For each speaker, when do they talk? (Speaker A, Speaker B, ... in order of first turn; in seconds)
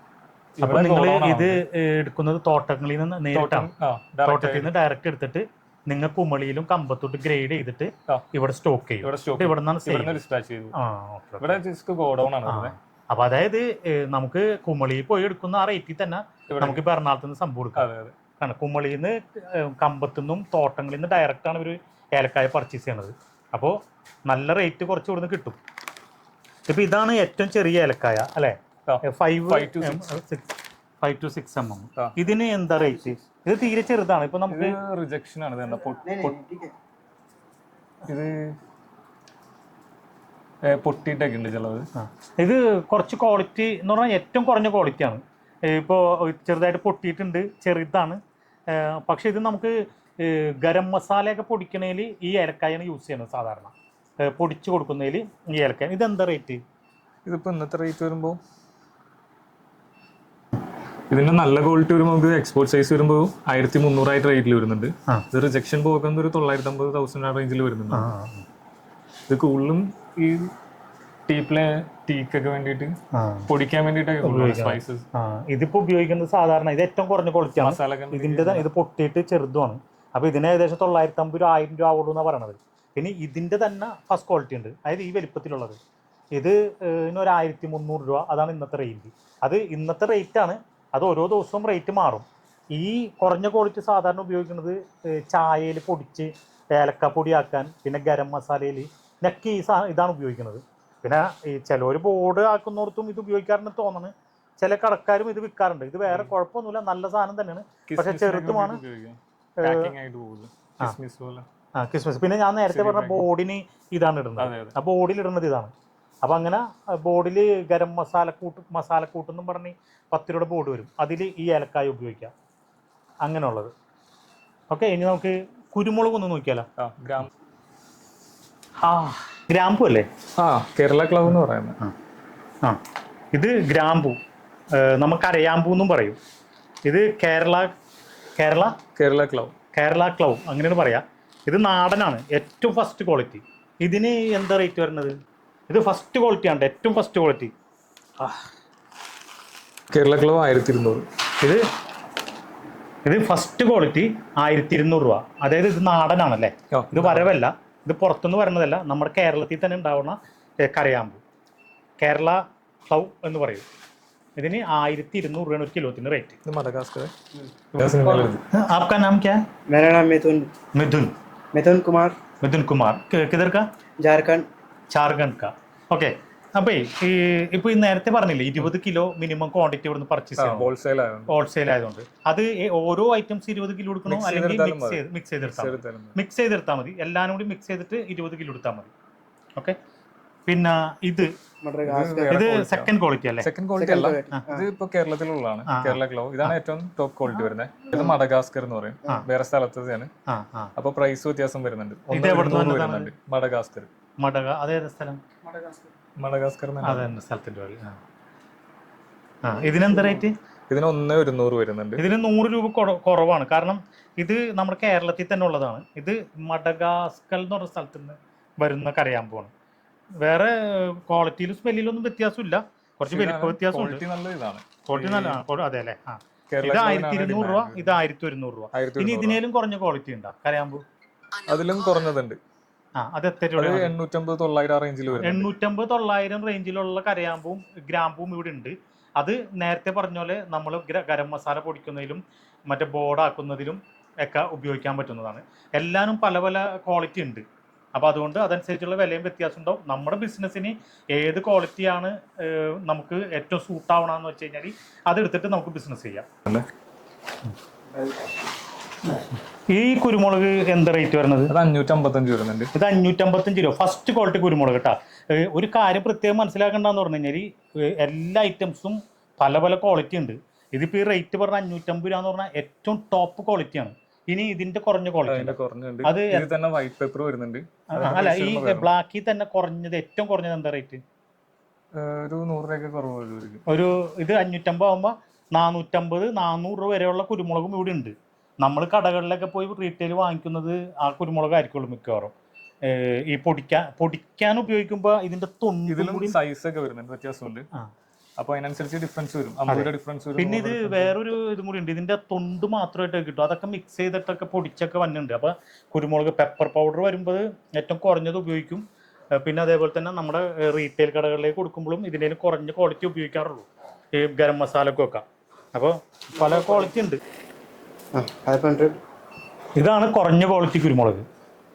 Speaker A: 0.6-3.7, 4.2-10.2, 10.7-11.6, 12.4-17.8, 18.4-25.6, 26.7-30.5, 31.0-34.8, 42.0-48.2, 48.7-56.6, 67.9-68.4, 73.1-73.5, 74.2-85.8, 86.3-108.8, 109.6-109.9, 111.8-122.3, 123.2-123.7, 124.7-126.7, 128.8-130.1, 133.3-134.2, 134.7-136.2, 136.8-137.7, 138.4-138.7, 139.7-145.2, 145.7-147.5, 153.0-161.2, 162.0-163.6, 164.4-166.4, 167.8-169.4, 170.7-171.1, 172.4-173.7, 174.9-180.7, 181.3-188.9, 190.5-191.3, 192.3-193.5, 195.7-196.5, 200.3-200.7, 202.1-203.1, 204.2-205.2, 206.8-208.0, 209.4-210.3, 212.0-219.5, 220.2-224.0, 224.8-230.8, 232.9-233.9, 235.2-256.3, 259.7-261.5, 262.7-276.4, 277.9-281.0, 283.7-292.3, 292.9-296.4, 299.7-308.8, 309.4-317.2, 319.7-321.2
Speaker B: 0.6-1.6, 3.3-4.7, 9.0-10.7, 11.4-12.7, 16.5-16.8, 17.8-18.1, 28.9-30.1, 34.5-36.4, 38.1-38.5, 40.6-41.9, 57.2-58.4, 61.1-68.1, 69.3-70.5, 71.3-73.0, 73.5-75.0, 77.6-78.7, 107.9-111.5, 112.7-113.3, 114.4-114.8, 126.8-127.3, 130.4-131.8, 138.9-139.5, 149.9-151.1, 156.7-157.3, 166.4-167.1, 167.8-168.4, 180.4-181.3, 184.1-186.2, 191.8-200.1, 200.8-203.9, 206.2-207.1, 210.7-212.0, 223.1-225.4, 226.5-228.0, 228.7-229.4, 231.5-232.4, 233.6-235.5, 261.5-262.7, 275.3-278.9, 281.9-283.6, 295.9-297.7, 298.4-301.1
Speaker C: 35.9-36.7, 169.7-170.5, 171.5-172.2, 174.0-174.5, 191.6-192.4, 193.8-194.6, 316.5-316.8, 318.1-319.0